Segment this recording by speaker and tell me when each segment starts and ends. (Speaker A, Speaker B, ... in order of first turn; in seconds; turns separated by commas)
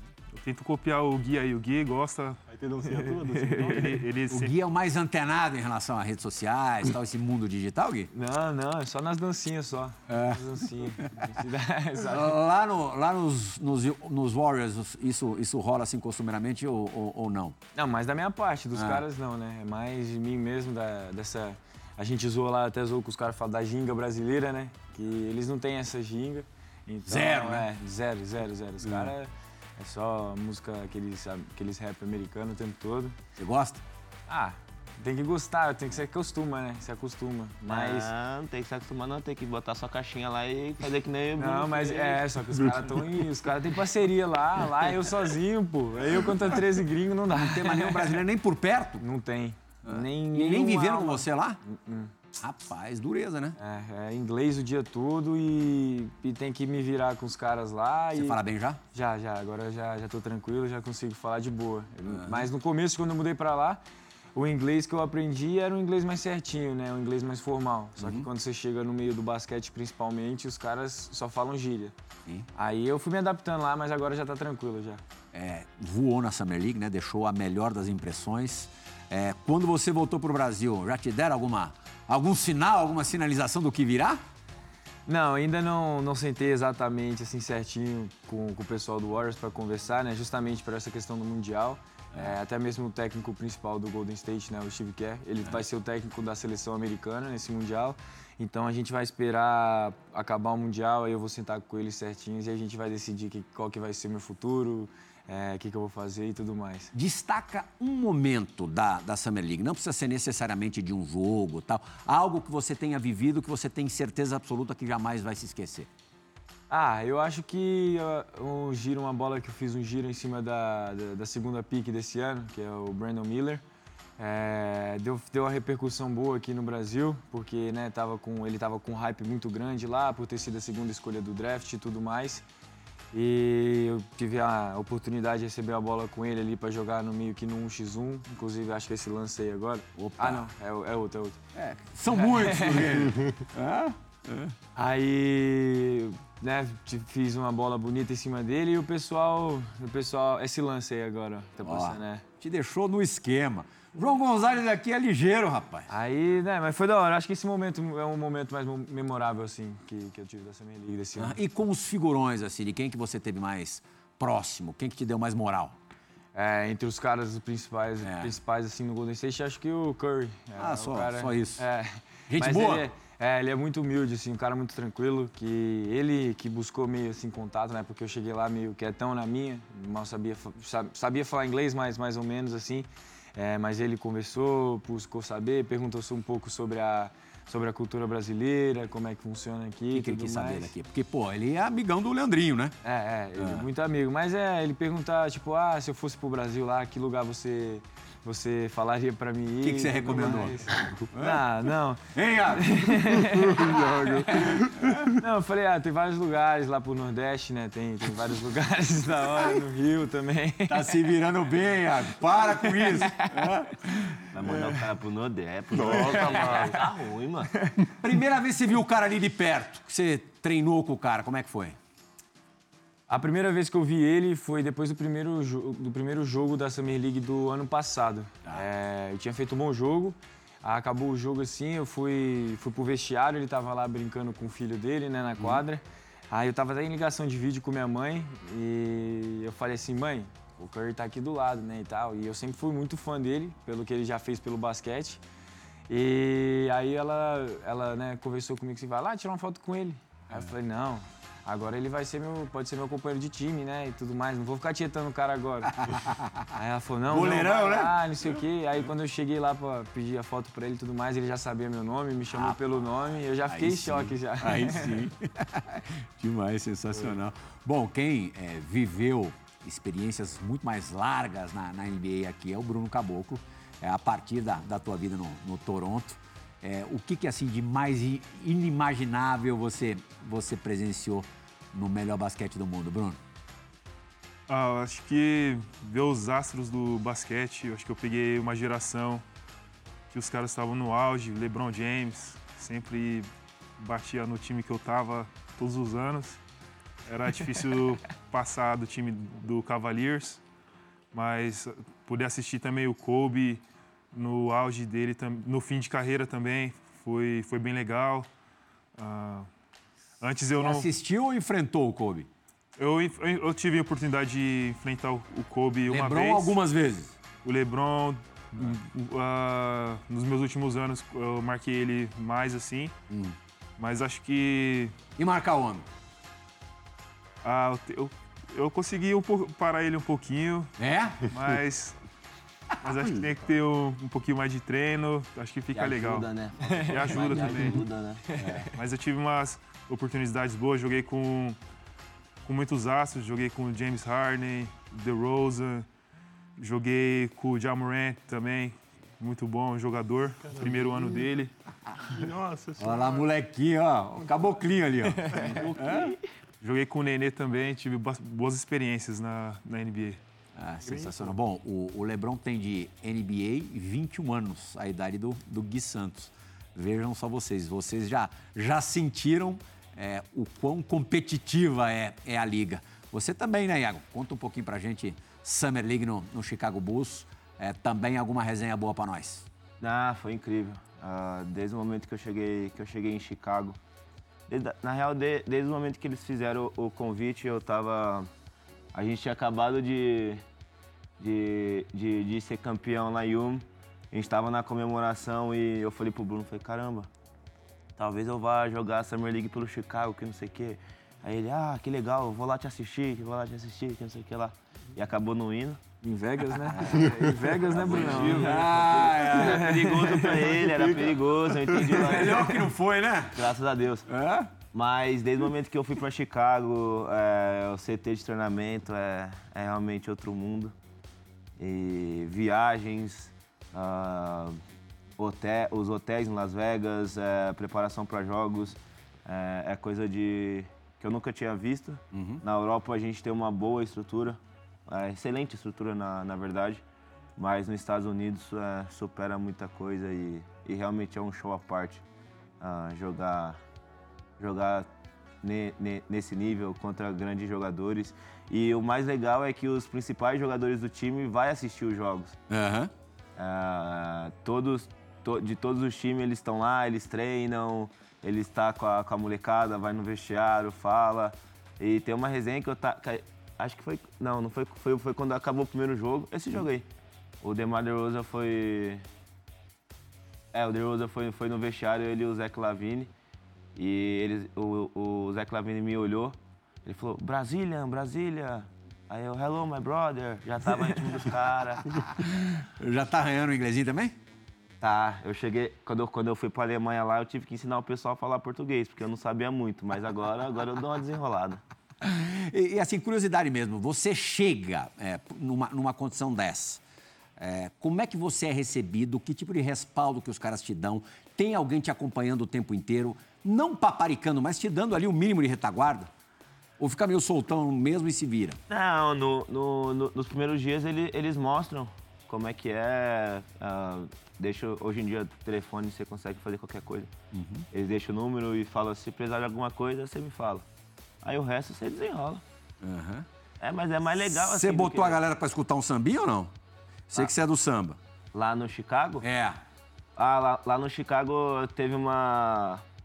Speaker A: 0.3-2.4, Speaker B: 2.5-4.0, Speaker C: 2.9-4.0, Speaker A: 3.7-4.5, Speaker D: 4.3-8.1, Speaker C: 8.1-12.4, Speaker D: 10.1-11.4, Speaker D: 12.1-17.6, Speaker C: 17.7-33.1, Speaker D: 18.7-19.0, Speaker D: 27.1-27.7, Speaker D: 28.8-29.1, Speaker D: 33.4-33.8, Speaker C: 34.3-38.1, Speaker E: 37.7-42.3, Speaker C: 41.4-48.2, Speaker D: 47.3-49.0, Speaker C: 49.0-52.1, Speaker D: 49.8-51.6, Speaker D: 52.3-53.6, Speaker C: 53.6-58.4, Speaker D: 58.1-58.8, Speaker C: 58.9-63.8, Speaker D: 62.1-62.5, Speaker C: 64.3-71.9, Speaker D: 68.0-68.3, Speaker C: 72.5-75.0, Speaker D: 75.3-84.2, Speaker C: 85.0-106.9, Speaker D: 106.9-115.9, Speaker C: 116.7-123.6, Speaker C: 124.2-132.4, Speaker C: 133.1-141.4, Speaker D: 139.9-140.5, Speaker D: 141.5-144.6, Speaker C: 142.1-142.9, Speaker C: 144.8-152.2, Speaker D: 151.6-155.9, Speaker C: 155.9-161.4, Speaker D: 161.2-165.8, Speaker C: 166.3-190.7, Speaker D: 168.0-168.3, Speaker D: 170.6-171.6, Speaker D: 172.3-172.9, Speaker D: 189.9-192.8, Speaker C: 192.8-204.6, Speaker D: 193.4-193.7, Speaker D: 199.6-201.4, Speaker D: 202.1-205.1, Speaker B: 203.6-204.9, Speaker C: 205.2-211.0, Speaker D: 210.7-214.8, Speaker C: 212.6-213.3, Speaker E: 214.3-217.5, Speaker B: 215.7-216.8, Speaker D: 218.0-221.8, Speaker C: 223.1-245.2, Speaker C: 245.9-255.7, Speaker D: 255.7-256.5, Speaker C: 256.5-265.0, Speaker D: 257.1-258.0, Speaker D: 262.3-262.6, Speaker D: 263.4-283.2, Speaker A: 284.5-289.2, Speaker A: 290.1-293.3, Speaker A: 293.8-296.4, Speaker A: 297.1-300.4, Speaker A: 301.1-303.6, Speaker A: 304.1-308.3, Speaker A: 309.0-309.5, Speaker A: 310.2-310.9, Speaker D: 310.6-312.3, Speaker A: 312.8-316.6, Speaker D: 315.9-317.1, Speaker A: 317.4-322.9, Speaker D: 323.1-323.4, Speaker A: 323.8-324.9, Speaker D: 325.2-325.9, Speaker A: 327.4-330.7, Speaker D: 330.8-331.4, Speaker A: 331.3-332.0, Speaker A: 332.8-337.9, Speaker E: 335.7-338.2, Speaker C: 338.3-338.7, Speaker D: 338.4-338.6, Speaker A: 338.7-341.6, Speaker A: 342.4-345.9, Speaker A: 346.6-351.5, Speaker B: 350.4-351.2, Speaker B: 352.0-353.2, Speaker D: 352.8-356.1, Speaker B: 354.2-354.5, Speaker E: 355.4-356.2, Speaker A: 356.6-360.2, Speaker D: 360.6-379.5, Speaker A: 360.9-361.2, Speaker E: 379.8-383.8, Speaker E: 384.5-388.3, Speaker E: 388.9-390.4, Speaker E: 391.2-397.1, Speaker E: 398.0-405.8, Speaker C: 406.0-410.5, Speaker D: 406.7-407.1, Speaker E: 407.7-412.6, Speaker D: 407.7-409.8, Speaker B: 410.5-411.8, Speaker D: 411.8-413.5, Speaker E: 413.3-414.1, Speaker D: 414.1-414.5, Speaker E: 414.7-420.7, Speaker E: 421.6-424.6, Speaker E: 425.2-436.8, Speaker D: 432.1-432.4, Speaker E: 437.4-442.0, Speaker E: 442.6-443.6, Speaker E: 444.4-444.9, Speaker E: 445.4-452.4, Speaker D: 452.5-452.9, Speaker E: 453.4-466.9, Speaker E: 467.4-469.1, Speaker E: 470.5-473.1, Speaker E: 473.8-481.9, Speaker D: 482.1-484.1, Speaker E: 484.8-491.6, Speaker D: 492.0-496.8, Speaker D: 497.4-506.1, Speaker D: 506.8-508.6, Speaker E: 508.7-517.1, Speaker D: 517.3-517.6, Speaker E: 517.7-520.6, Speaker E: 521.2-522.4, Speaker D: 522.8-523.2, Speaker E: 523.6-525.2, Speaker D: 524.2-526.5, Speaker D: 527.1-528.0, Speaker E: 528.3-529.2, Speaker D: 529.2-529.6, Speaker E: 530.1-532.8